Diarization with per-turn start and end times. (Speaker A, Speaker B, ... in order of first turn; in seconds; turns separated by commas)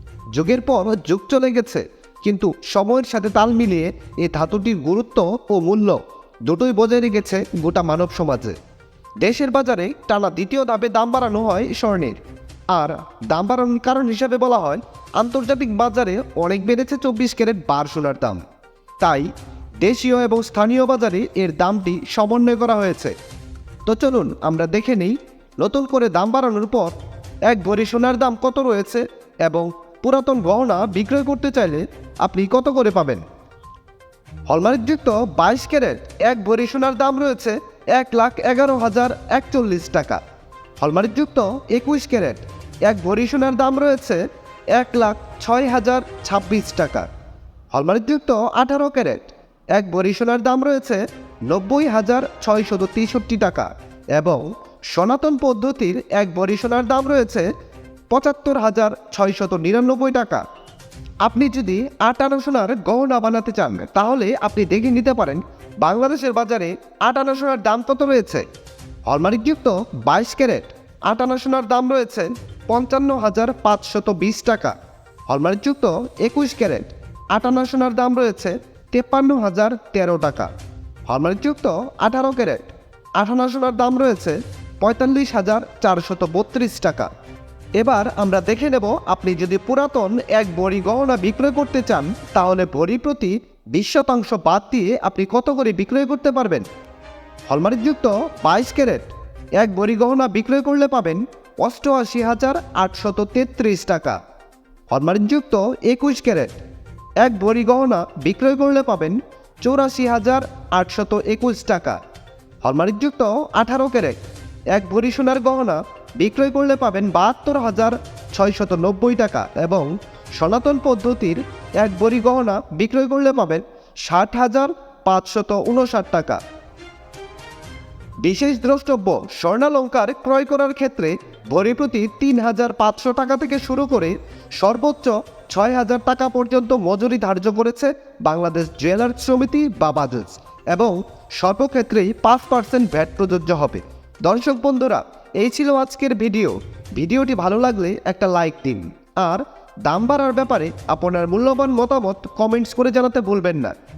Speaker A: 0.3-8.6, Speaker A: 9.2-12.2, Speaker A: 12.7-18.4, Speaker A: 19.0-19.3, Speaker A: 19.8-23.1, Speaker A: 23.9-26.9, Speaker A: 27.5-33.2, Speaker A: 34.5-40.2, Speaker A: 40.8-44.2, Speaker A: 44.7-47.1, Speaker A: 47.7-57.5, Speaker A: 58.1-60.4, Speaker A: 61.2-68.4, Speaker A: 69.1-74.8, Speaker A: 75.3-80.5, Speaker A: 81.1-87.1, Speaker A: 87.8-96.7, Speaker A: 97.5-104.2, Speaker A: 104.9-106.5, Speaker A: 107.2-112.0, Speaker A: 112.6-114.2, Speaker A: 114.7-126.4, Speaker A: 128.2-153.7